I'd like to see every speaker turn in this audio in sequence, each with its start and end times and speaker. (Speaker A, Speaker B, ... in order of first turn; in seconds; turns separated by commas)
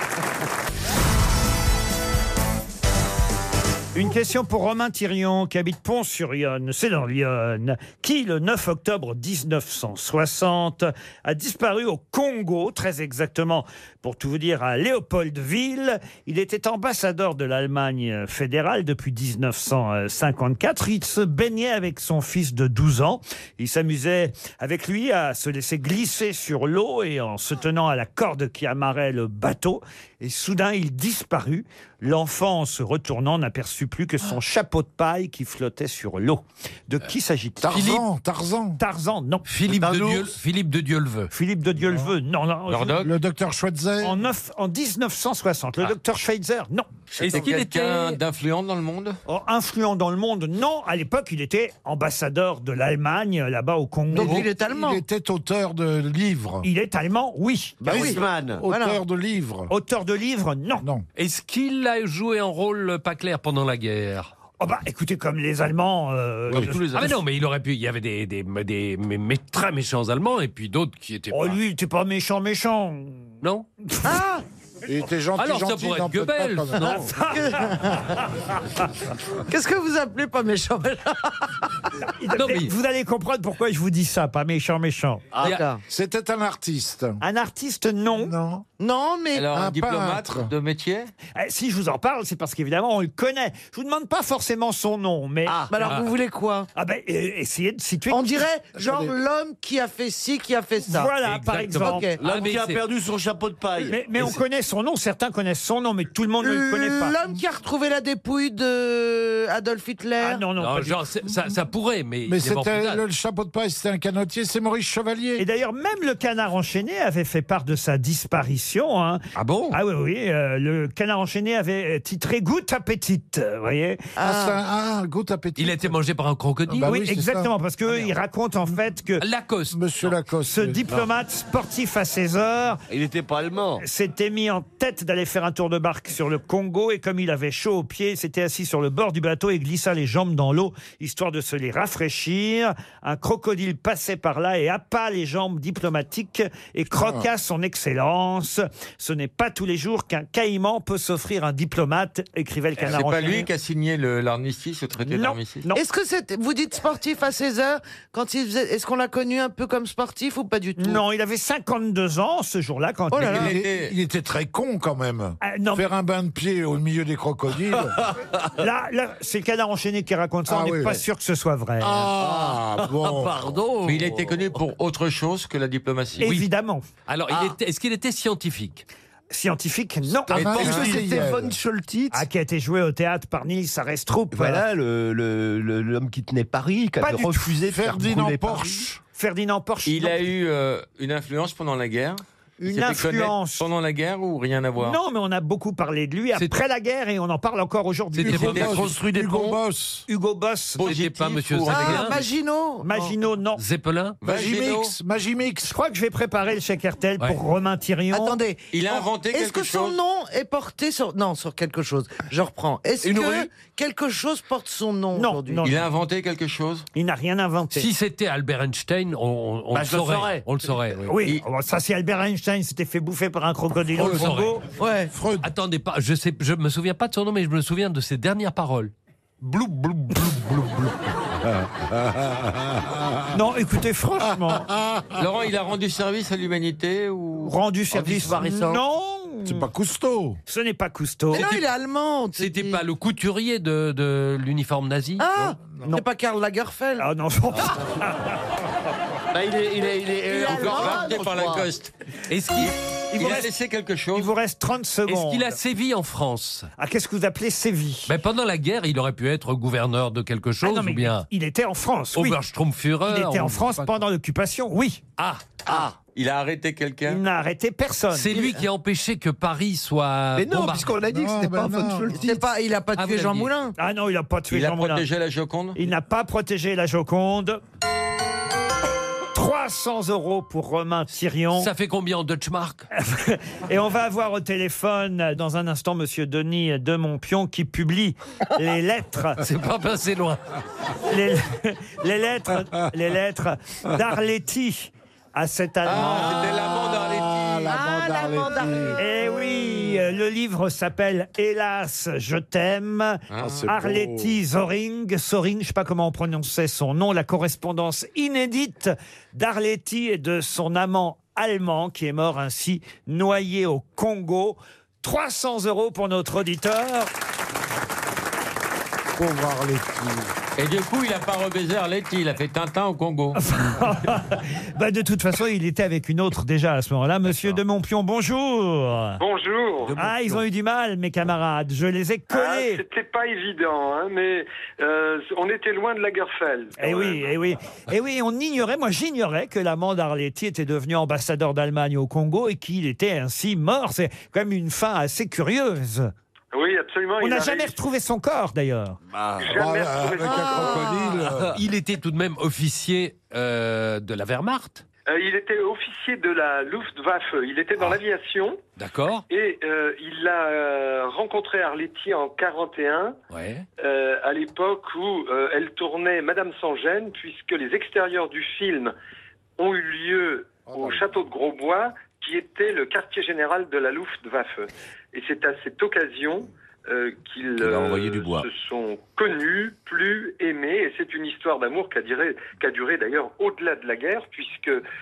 Speaker A: 4.0-37.8, Speaker B: 37.6-38.8, Speaker C: 37.7-38.0, Speaker A: 38.8-39.5, Speaker C: 39.5-41.3, Speaker D: 39.7-40.4, Speaker A: 41.3-43.0, Speaker E: 42.7-43.1, Speaker B: 43.0-44.2, Speaker A: 44.0-46.9, Speaker E: 47.2-49.2, Speaker C: 47.2-48.2, Speaker A: 49.3-54.5, Speaker F: 54.1-55.0, Speaker B: 54.1-56.7, Speaker A: 56.6-57.9, Speaker D: 57.8-58.6, Speaker F: 57.9-59.0, Speaker B: 57.9-59.7, Speaker A: 59.7-60.9, Speaker C: 61.2-64.3, Speaker A: 64.6-67.2, Speaker D: 66.5-67.1, Speaker C: 66.9-71.6, Speaker A: 71.3-73.3, Speaker C: 73.4-73.7, Speaker F: 74.0-74.4, Speaker B: 74.9-77.1, Speaker C: 75.4-76.9, Speaker F: 76.8-78.2, Speaker A: 76.9-77.9, Speaker F: 79.5-81.6, Speaker A: 82.2-85.3, Speaker C: 82.4-82.7, Speaker F: 85.4-85.8, Speaker B: 85.9-87.2, Speaker A: 87.2-88.3, Speaker B: 88.2-88.6, Speaker F: 88.8-89.5, Speaker E: 89.3-91.1, Speaker B: 89.5-90.5, Speaker A: 91.4-95.9, Speaker D: 95.5-96.0, Speaker F: 95.7-96.7, Speaker A: 96.8-98.5, Speaker F: 98.1-101.1, Speaker B: 98.8-99.1, Speaker A: 100.8-102.1, Speaker C: 101.2-102.8, Speaker F: 101.8-102.2, Speaker D: 102.2-104.4, Speaker A: 103.8-107.2, Speaker F: 106.4-110.4, Speaker A: 110.2-111.1, Speaker C: 110.6-113.0, Speaker B: 112.3-115.4, Speaker A: 115.4-124.1, Speaker F: 124.2-124.6, Speaker B: 124.2-126.0, Speaker C: 125.6-127.0, Speaker B: 126.7-127.5, Speaker A: 126.8-129.2, Speaker C: 129.2-130.1, Speaker B: 129.7-130.9, Speaker A: 130.5-132.8, Speaker D: 132.9-133.8, Speaker A: 133.8-153.5, Speaker B: 146.9-147.3, Speaker E: 152.8-155.7, Speaker A: 155.1-155.8, Speaker F: 155.7-161.0, Speaker A: 160.8-163.5, Speaker F: 163.1-163.5, Speaker E: 163.3-163.9, Speaker B: 163.3-168.0, Speaker A: 165.4-165.9, Speaker A: 168.6-172.1, Speaker B: 170.5-171.0, Speaker B: 171.8-173.6, Speaker D: 172.2-174.6, Speaker E: 173.8-176.3, Speaker A: 176.2-176.8, Speaker C: 176.2-176.5, Speaker C: 177.1-178.8, Speaker D: 177.3-177.6, Speaker A: 179.3-180.6, Speaker B: 180.3-181.6, Speaker E: 180.4-180.9, Speaker G: 180.4-182.3, Speaker A: 182.1-184.6, Speaker G: 184.3-188.9, Speaker A: 187.0-187.6, Speaker B: 187.6-189.0, Speaker A: 189.1-190.2, Speaker E: 189.9-195.0, Speaker A: 192.6-193.7, Speaker A: 194.8-198.6, Speaker C: 198.2-198.8, Speaker B: 198.2-200.1, Speaker E: 198.3-198.8, Speaker D: 198.8-199.6, Speaker A: 200.1-200.9, Speaker E: 200.8-202.2, Speaker C: 200.8-202.2, Speaker F: 201.7-203.1, Speaker A: 202.8-203.6, Speaker C: 203.6-204.2, Speaker E: 204.2-204.9, Speaker B: 204.2-205.7, Speaker A: 205.7-208.4, Speaker F: 208.1-215.8, Speaker E: 208.7-210.0, Speaker D: 213.0-213.5, Speaker A: 215.1-215.8, Speaker E: 215.6-216.9, Speaker A: 216.9-217.9, Speaker C: 217.7-221.1, Speaker D: 219.7-220.4, Speaker A: 221.1-224.6, Speaker C: 223.9-224.6, Speaker F: 224.8-225.1, Speaker B: 225.1-225.5, Speaker C: 225.4-228.9, Speaker B: 229.4-233.3, Speaker A: 233.3-234.7, Speaker B: 234.2-235.2, Speaker E: 235.2-237.6, Speaker A: 237.4-239.7, Speaker D: 237.9-238.8, Speaker B: 239.4-240.4, Speaker A: 240.5-241.5, Speaker F: 241.3-242.8, Speaker C: 241.3-241.6, Speaker C: 242.4-245.2, Speaker F: 245.2-247.1, Speaker B: 245.4-245.9, Speaker A: 247.0-248.4, Speaker D: 249.3-251.6, Speaker F: 250.3-251.5, Speaker E: 250.4-251.9, Speaker C: 252.3-252.8, Speaker E: 252.6-254.3, Speaker A: 253.1-253.5, Speaker A: 254.1-255.6, Speaker C: 255.1-256.7, Speaker A: 256.8-258.1, Speaker C: 258.1-261.3, Speaker A: 260.6-262.4, Speaker C: 262.1-263.9, Speaker A: 263.1-265.0, Speaker C: 265.2-265.6, Speaker E: 266.1-267.2, Speaker A: 267.1-268.4, Speaker C: 268.1-270.9, Speaker G: 270.4-272.4, Speaker B: 271.0-272.3, Speaker F: 272.2-273.7, Speaker C: 272.9-273.5, Speaker A: 273.8-275.1, Speaker E: 274.5-275.8, Speaker A: 275.8-277.6, Speaker A: 279.3-281.7, Speaker C: 281.6-282.9, Speaker A: 282.9-289.4, Speaker C: 289.4-290.4, Speaker A: 291.1-296.6, Speaker E: 295.9-297.8, Speaker B: 296.0-299.0, Speaker F: 297.7-299.5, Speaker A: 299.0-317.1, Speaker E: 303.3-303.6, Speaker B: 303.4-304.4, Speaker B: 319.2-320.3, Speaker E: 320.6-323.4, Speaker A: 323.4-329.2, Speaker H: 329.2-330.0, Speaker C: 329.9-330.4, Speaker A: 329.9-332.8, Speaker H: 332.3-337.3, Speaker A: 336.8-346.1, Speaker H: 346.5-347.8, Speaker A: 347.2-349.0, Speaker D: 349.1-349.6, Speaker H: 349.4-350.9, Speaker B: 349.4-351.6, Speaker F: 350.4-351.0, Speaker C: 351.4-354.9, Speaker H: 355.1-358.6, Speaker C: 358.8-359.2, Speaker H: 359.3-363.2, Speaker C: 363.3-363.7, Speaker H: 363.8-368.9, Speaker H: 369.6-384.9, Speaker B: 370.7-371.2, Speaker D: 377.6-378.5